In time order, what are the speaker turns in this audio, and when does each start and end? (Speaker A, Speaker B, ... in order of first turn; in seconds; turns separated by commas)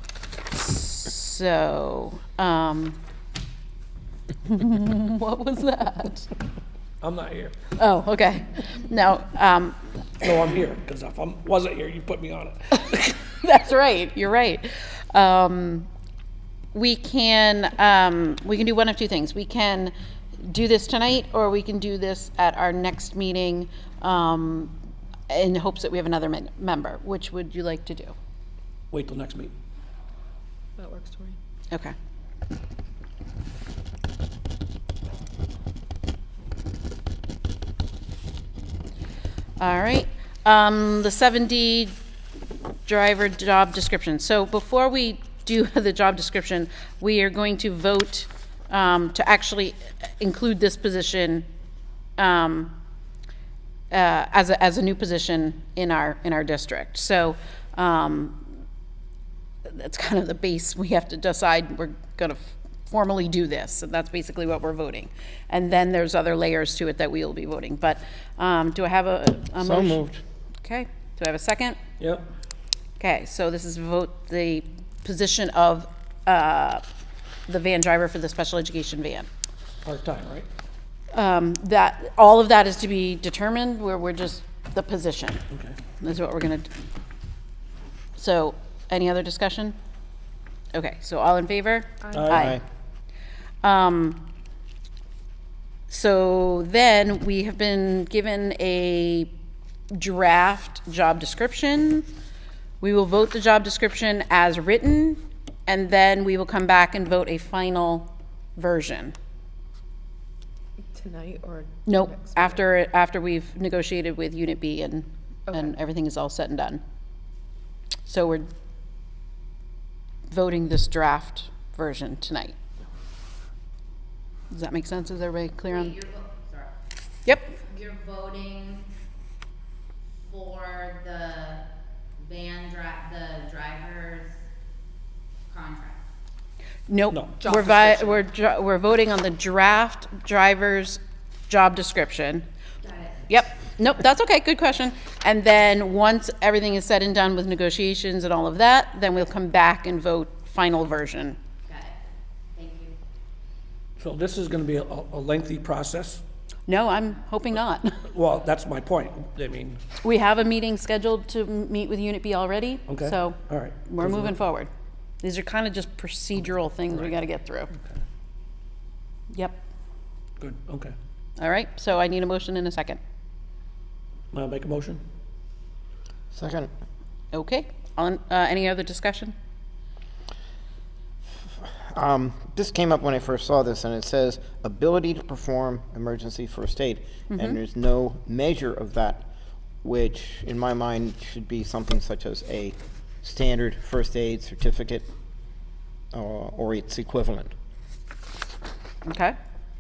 Speaker A: 0.5-3.0, Speaker A: 4.5-6.3, Speaker B: 7.0-7.6, Speaker A: 7.8-9.8, Speaker B: 10.2-13.2, Speaker A: 13.3-15.9, Speaker A: 16.7-24.8, Speaker A: 25.3-28.1, Speaker B: 28.9-29.5, Speaker C: 30.8-31.4, Speaker A: 39.6-41.9, Speaker A: 42.9-51.5, Speaker A: 52.2-52.8, Speaker A: 53.9-58.5, Speaker A: 59.7-70.0, Speaker D: 69.6-70.2, Speaker A: 70.6-71.8, Speaker B: 72.0-72.3, Speaker A: 73.0-76.8, Speaker A: 77.5-79.3, Speaker B: 79.8-80.5, Speaker A: 81.1-85.4, Speaker B: 85.5-85.8, Speaker A: 86.0-86.7, Speaker A: 88.2-89.8, Speaker A: 90.7-92.6, Speaker B: 92.1-92.6, Speaker D: 92.3-92.6, Speaker A: 93.6-94.3, Speaker A: 95.9-99.3, Speaker A: 99.9-102.1, Speaker A: 102.8-109.2, Speaker C: 110.9-112.6, Speaker A: 111.9-116.8, Speaker A: 118.1-118.5, Speaker A: 120.3-122.6, Speaker A: 124.5-126.0, Speaker E: 125.7-126.7, Speaker A: 127.2-127.6, Speaker E: 127.6-128.9, Speaker E: 130.2-131.6, Speaker E: 132.2-134.4, Speaker E: 135.5-136.0, Speaker A: 136.9-142.5, Speaker B: 137.1-137.4, Speaker C: 137.4-138.1, Speaker E: 142.8-143.2, Speaker A: 143.3-151.4, Speaker E: 151.7-152.0, Speaker E: 152.6-152.9, Speaker B: 154.0-156.2, Speaker A: 156.7-158.0, Speaker B: 158.1-159.8, Speaker A: 160.0-164.7, Speaker B: 162.9-164.4, Speaker A: 165.2-167.7, Speaker A: 169.3-169.6, Speaker B: 170.4-170.9, Speaker A: 171.4-173.0, Speaker B: 174.3-175.0, Speaker D: 176.3-176.7, Speaker A: 177.3-179.3, Speaker D: 181.4-189.3, Speaker A: 187.3-187.6, Speaker D: 189.8-195.1, Speaker D: 196.1-197.5, Speaker A: 199.1-199.4